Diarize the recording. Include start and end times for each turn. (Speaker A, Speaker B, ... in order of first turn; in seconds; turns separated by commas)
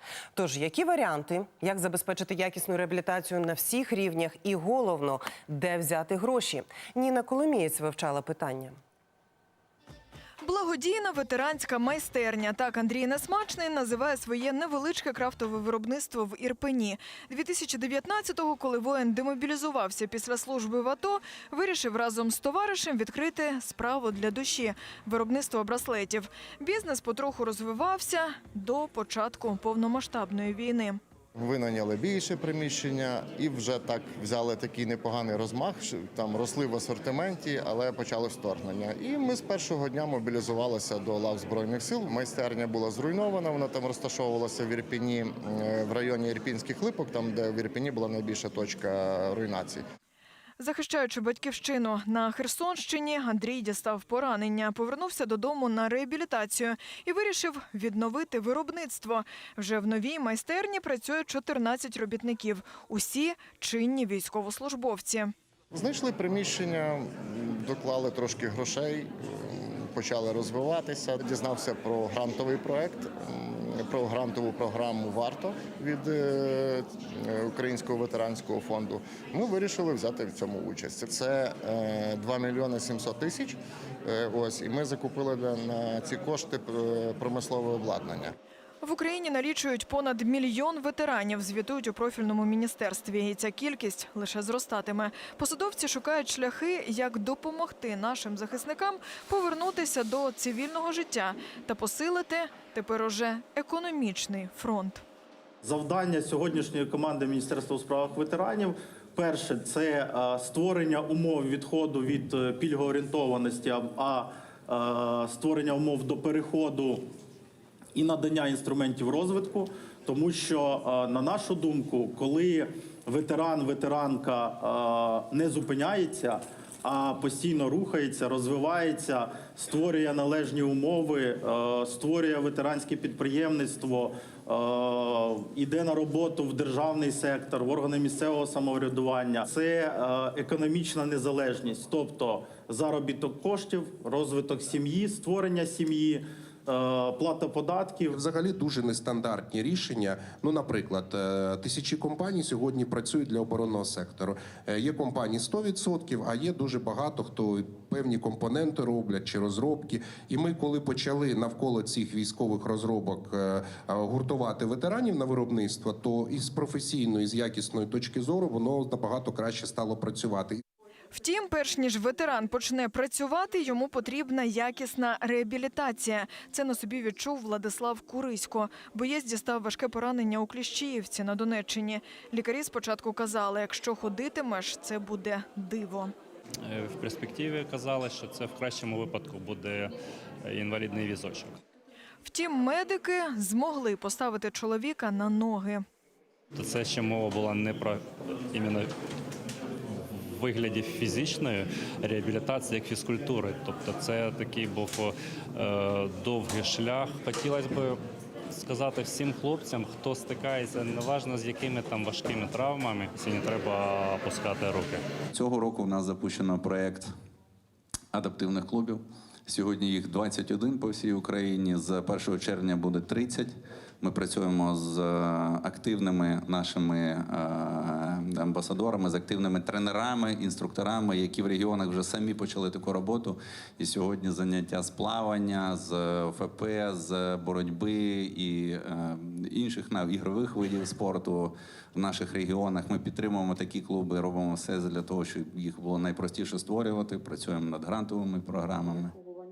Speaker A: 0.3-8.8, Speaker B: 10.4-31.0, Speaker C: 31.4-49.8, Speaker B: 50.6-65.3, Speaker C: 65.7-88.3, Speaker B: 88.8-105.0, Speaker D: 105.6-117.0, Speaker D: 117.9-148.2, Speaker E: 148.1-170.6, Speaker B: 171.1-186.1, Speaker F: 186.7-189.9, Speaker F: 190.4-191.6, Speaker B: 192.2-195.8, Speaker F: 196.5-198.0, Speaker F: 198.5-198.9, Speaker F: 200.1-208.0, Speaker F: 208.5-215.0, Speaker G: 215.3-217.1, Speaker G: 218.1-223.5, Speaker G: 224.0-249.1